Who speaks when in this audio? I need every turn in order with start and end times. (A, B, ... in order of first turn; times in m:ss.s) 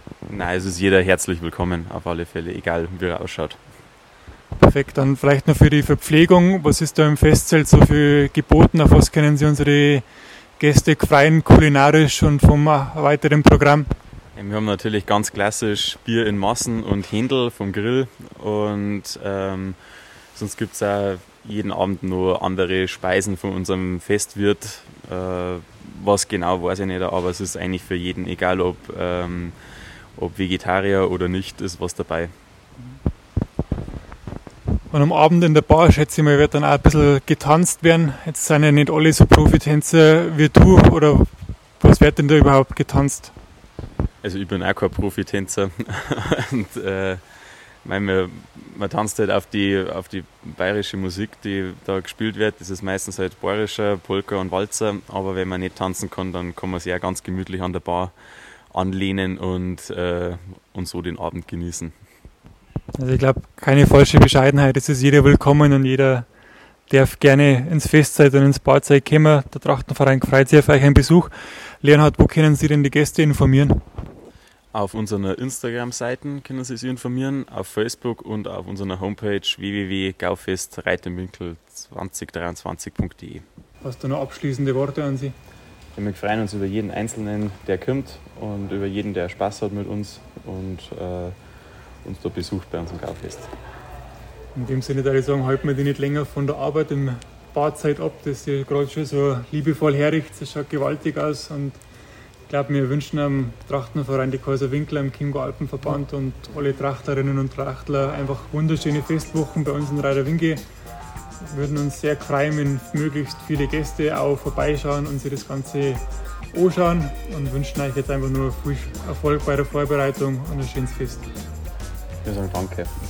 0:00.3-0:03.6 A
0:04.6-0:10.1 B
0:10.6-0:13.9 B
0:14.4-0:19.8 A
0:20.3-0:29.6 A
0:30.1-0:32.3 A
0:34.9-0:43.3 B
0:44.2-0:47.2 A
0:47.8-1:02.0 A
1:03.0-1:06.3 B
1:06.9-1:13.8 B
1:14.7-1:23.4 A
1:23.8-1:25.3 B
1:26.0-1:31.4 A
1:32.0-1:33.5 A
1:34.6-1:41.8 B
1:42.5-1:50.6 B
1:51.4-2:01.3 B
2:02.2-2:02.9 A